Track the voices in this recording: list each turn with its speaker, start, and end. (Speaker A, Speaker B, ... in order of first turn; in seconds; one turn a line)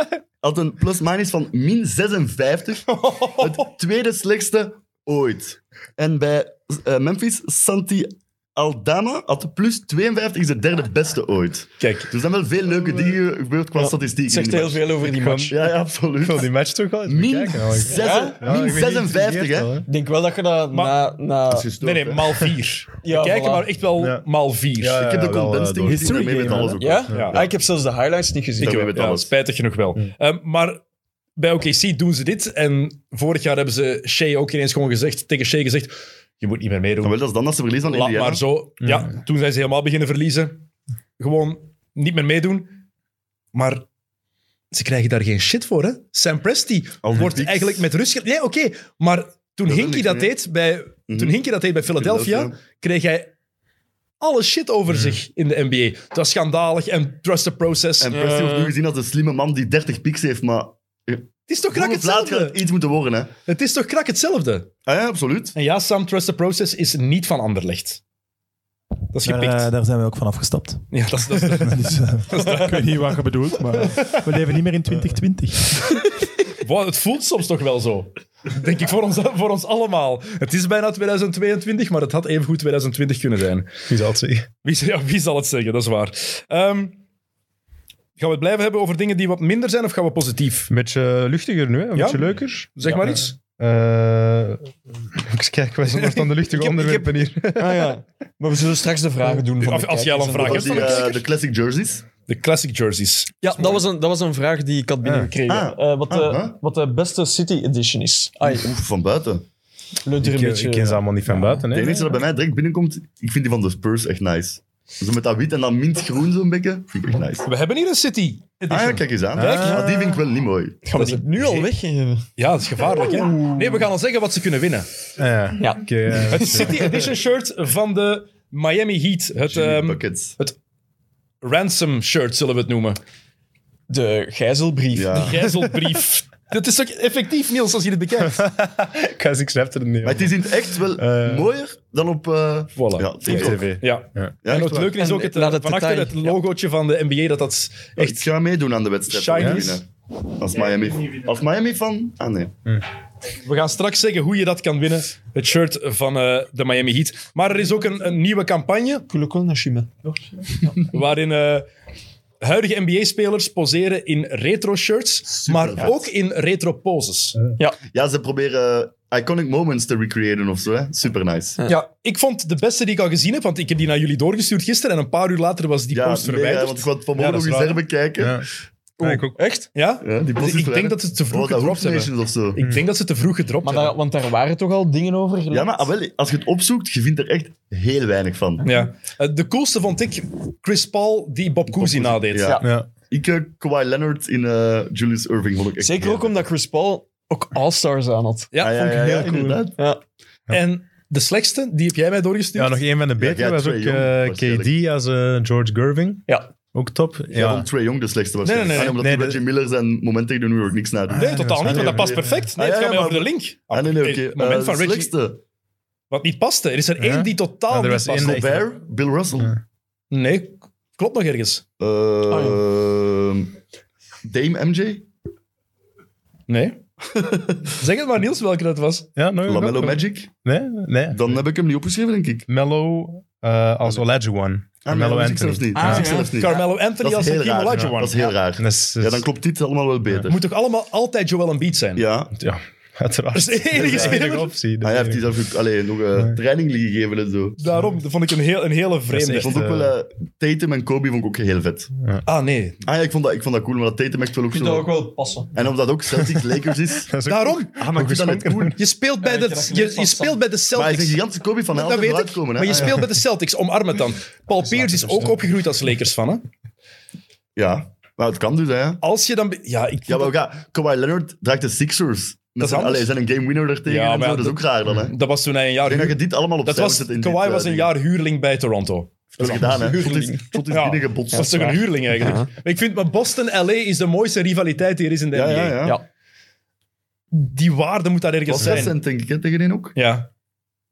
Speaker A: 0.4-14.8
Speaker B: 2.9-3.6
Speaker B: 11.8-12.1
Speaker C: 13.8-15.6
Speaker D: 15.0-19.9
Speaker A: 15.5-16.5
Speaker A: 17.1-19.8
Speaker C: 17.9-18.4
Speaker C: 19.8-21.7
Speaker B: 20.7-21.0
Speaker A: 21.5-22.2
Speaker B: 21.8-25.0
Speaker C: 23.0-23.7
Speaker D: 24.8-27.2
Speaker A: 24.9-27.5
Speaker E: 25.8-26.8
Speaker C: 26.8-28.8
Speaker B: 27.1-27.3
Speaker B: 28.6-30.8
Speaker A: 28.6-29.3
Speaker B: 31.4-37.1
Speaker A: 37.0-38.4
Speaker B: 37.9-40.6
Speaker D: 38.8-39.1
Speaker B: 41.2-42.7
Speaker B: 43.5-43.8
Speaker B: 44.7-53.3
Speaker A: 47.0-47.8
Speaker A: 49.7-50.3
Speaker A: 51.1-52.5
Speaker B: 54.2-58.1
Speaker A: 58.0-63.3
Speaker C: 58.0-58.7
Speaker B: 61.5-62.6
Speaker B: 63.5-64.7
Speaker A: 64.8-65.5
Speaker B: 65.5-68.0
Speaker B: 69.1-69.7
Speaker E: 69.2-70.8
Speaker B: 70.9-72.9
Speaker E: 71.6-76.0
Speaker B: 76.6-83.7
Speaker D: 83.9-84.5
Speaker B: 84.6-87.0
Speaker B: 88.2-90.7
Speaker D: 90.7-98.0
Speaker B: 91.9-92.2
Speaker B: 92.7-93.3
Speaker B: 95.9-96.5
Speaker C: 96.6-101.2
Speaker B: 99.6-101.2
Speaker A: 100.4-102.0
Speaker B: 102.3-103.8
Speaker C: 103.4-108.8
Speaker D: 105.0-105.3
Speaker A: 105.5-106.5
Speaker A: 108.5-109.4
Speaker C: 110.0-111.0
Speaker D: 110.2-112.1
Speaker A: 111.7-117.5
Speaker B: 117.4-119.9
Speaker A: 118.7-120.8
Speaker D: 119.3-120.2
Speaker C: 120.8-122.3
Speaker B: 120.9-121.7
Speaker B: 122.4-124.9
Speaker C: 123.2-123.7
Speaker D: 125.2-127.0
Speaker C: 125.6-125.8
Speaker B: 126.3-130.6
Speaker A: 129.5-130.3
Speaker B: 131.4-133.0
Speaker C: 133.9-135.4
Speaker A: 134.9-135.7
Speaker B: 135.1-138.4
Speaker D: 138.3-141.5
Speaker A: 140.0-143.7
Speaker B: 142.8-148.3
Speaker D: 143.2-144.3
Speaker A: 144.4-145.0
Speaker C: 145.0-146.4
Speaker A: 148.0-152.6
Speaker B: 149.1-149.8
Speaker D: 149.4-149.6
Speaker B: 153.4-159.0
Speaker C: 159.1-159.9
Speaker B: 160.9-161.7
Speaker B: 162.4-167.4
Speaker A: 165.3-165.9
Speaker A: 167.9-171.6
Speaker B: 171.7-177.8
Speaker A: 175.9-178.4
Speaker D: 178.2-178.4
Speaker C: 179.0-179.7
Speaker D: 179.0-179.4
Speaker B: 179.7-183.9
Speaker A: 180.0-182.6
Speaker C: 183.6-185.9
Speaker A: 185.5-188.6
Speaker B: 188.6-192.5
Speaker A: 191.7-196.4
Speaker D: 192.6-192.9
Speaker C: 195.8-198.5
Speaker B: 198.5-199.2
Speaker A: 198.6-199.8
Speaker D: 198.9-199.6
Speaker B: 200.5-202.8
Speaker D: 202.5-207.7
Speaker A: 203.2-204.7
Speaker A: 207.3-215.4
Speaker B: 208.4-209.0
Speaker D: 208.8-209.4
Speaker D: 211.1-212.4
Speaker B: 211.1-215.1
Speaker B: 216.1-218.6
Speaker D: 217.0-218.6
Speaker A: 218.2-219.6
Speaker B: 220.1-221.6
Speaker A: 221.8-223.5
Speaker C: 222.3-222.6
Speaker A: 224.2-225.1
Speaker B: 226.5-226.8
Speaker A: 227.1-227.7
Speaker B: 227.8-229.1
Speaker D: 229.2-231.4
Speaker A: 229.4-230.3
Speaker A: 231.1-232.5
Speaker D: 232.5-236.1
Speaker A: 234.8-240.4
Speaker C: 235.7-236.6
Speaker B: 236.1-238.3
Speaker D: 238.6-239.3
Speaker B: 240.3-242.0
Speaker A: 242.0-242.3
Speaker D: 242.3-245.3
Speaker B: 243.3-244.5
Speaker A: 243.8-244.2
Speaker A: 244.8-247.6
Speaker B: 247.6-249.6
Speaker D: 249.1-249.9
Speaker A: 249.3-251.9
Speaker B: 252.2-252.8
Speaker A: 252.8-254.9
Speaker C: 254.5-255.5
Speaker A: 255.5-257.1
Speaker D: 257.1-258.8
Speaker B: 257.2-257.9
Speaker A: 257.8-258.7
Speaker B: 258.7-261.2
Speaker C: 259.2-260.4
Speaker A: 260.7-263.0
Speaker B: 261.7-266.4
Speaker A: 267.6-269.0
Speaker B: 269.0-270.4
Speaker A: 270.1-275.1
Speaker B: 272.6-273.1
Speaker B: 273.9-279.7
Speaker A: 275.8-277.9
Speaker A: 279.4-281.8
Speaker C: 279.4-280.6
Speaker B: 280.7-285.8
Speaker C: 281.3-282.5
Speaker A: 285.3-286.0
Speaker B: 287.3-288.9
Speaker A: 288.5-289.9
Speaker B: 289.9-290.3